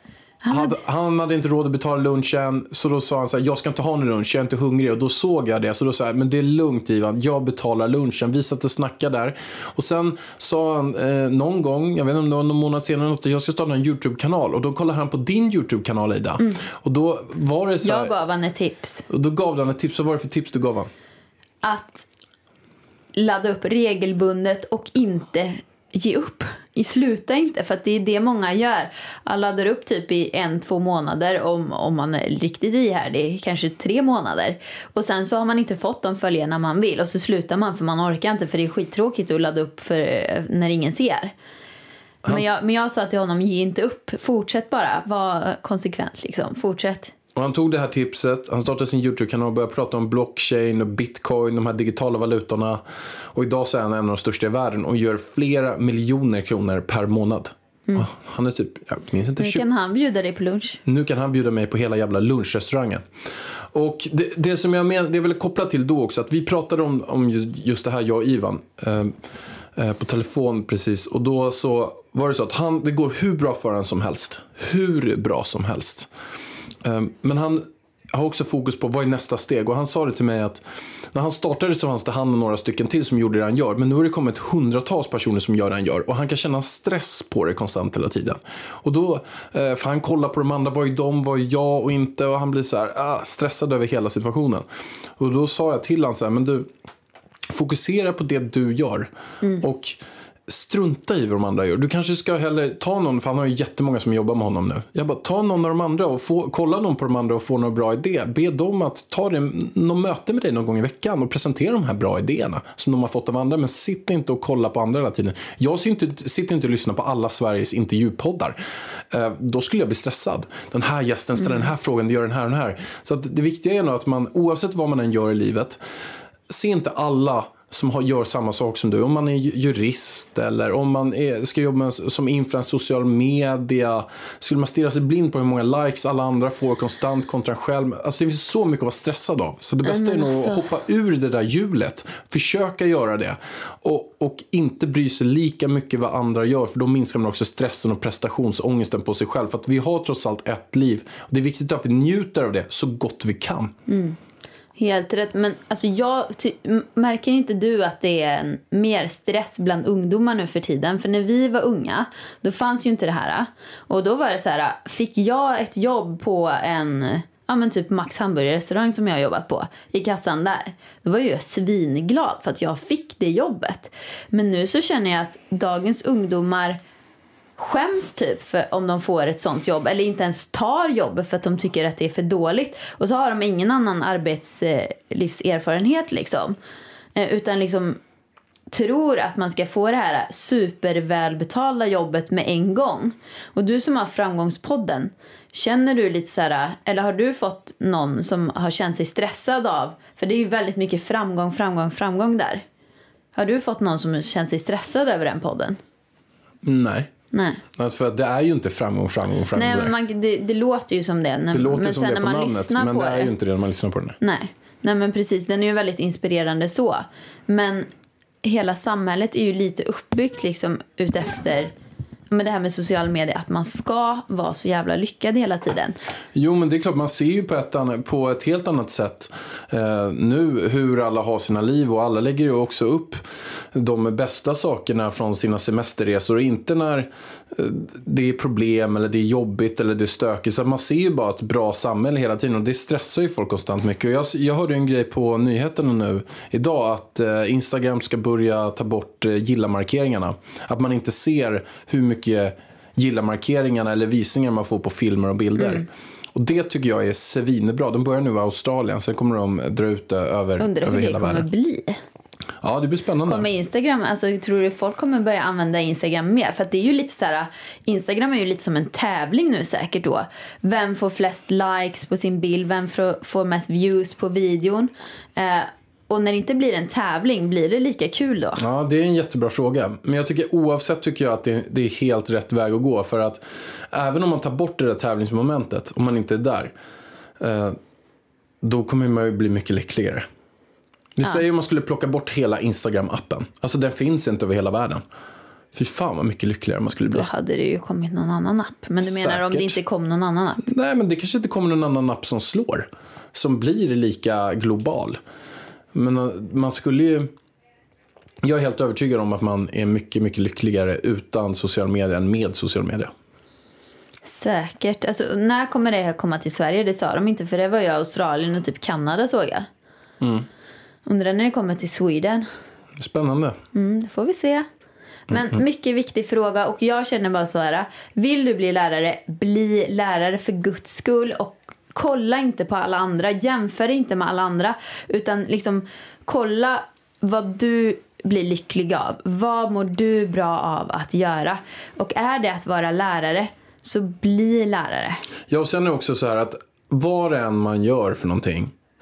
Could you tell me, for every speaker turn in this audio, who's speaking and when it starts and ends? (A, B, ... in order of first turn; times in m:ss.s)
0:00.4-0:00.7 A
0:00.5-0:18.1 B
0:17.8-0:19.0 A
0:19.1-0:20.9 B
0:21.6-0:22.1 A
0:23.2-0:41.3 A
0:42.2-0:47.1 A
0:47.3-0:52.8 B
0:53.3-0:59.6 B
0:59.4-1:00.8 A
1:00.8-1:09.1 B
1:09.7-1:16.1 B
1:16.8-1:34.6 B
1:35.2-1:36.7 B
1:37.5-1:58.6 B
1:59.1-2:05.8 B
2:06.5-2:33.7 B
2:19.8-2:20.6 A
2:33.9-2:34.2 A
2:34.8-2:56.8 A
2:57.6-3:06.6 A
3:07.2-3:08.0 A
3:08.7-3:22.6 A
3:23.3-3:25.8 A
3:26.6-3:27.1 B
3:27.3-3:27.6 A
3:27.7-3:29.9 B
3:29.5-3:33.3 A
3:31.5-3:34.2 B
3:34.2-3:37.9 A
3:38.4-3:41.7 A
3:42.3-3:46.0 A
3:46.3-4:21.5 B
4:15.6-4:15.8 A
4:20.6-4:22.0 A
4:22.6-4:23.5 B
4:23.2-4:38.6 A
4:38.6-4:46.7 B
4:47.4-4:47.8 B
4:48.6-4:50.3 B
4:51.2-4:55.0 B
4:55.7-4:57.3 B
4:57.1-5:00.6 A
4:59.0-4:59.8 B
5:00.6-5:05.2 B
5:05.9-5:07.3 B
5:08.4-5:13.1 B
5:14.2-5:19.7 A
5:20.2-5:20.5 B
5:21.0-5:22.5 A
5:23.0-5:23.6 B
5:23.7-5:24.6 A
5:25.3-5:45.2 A
5:45.5-5:48.7 B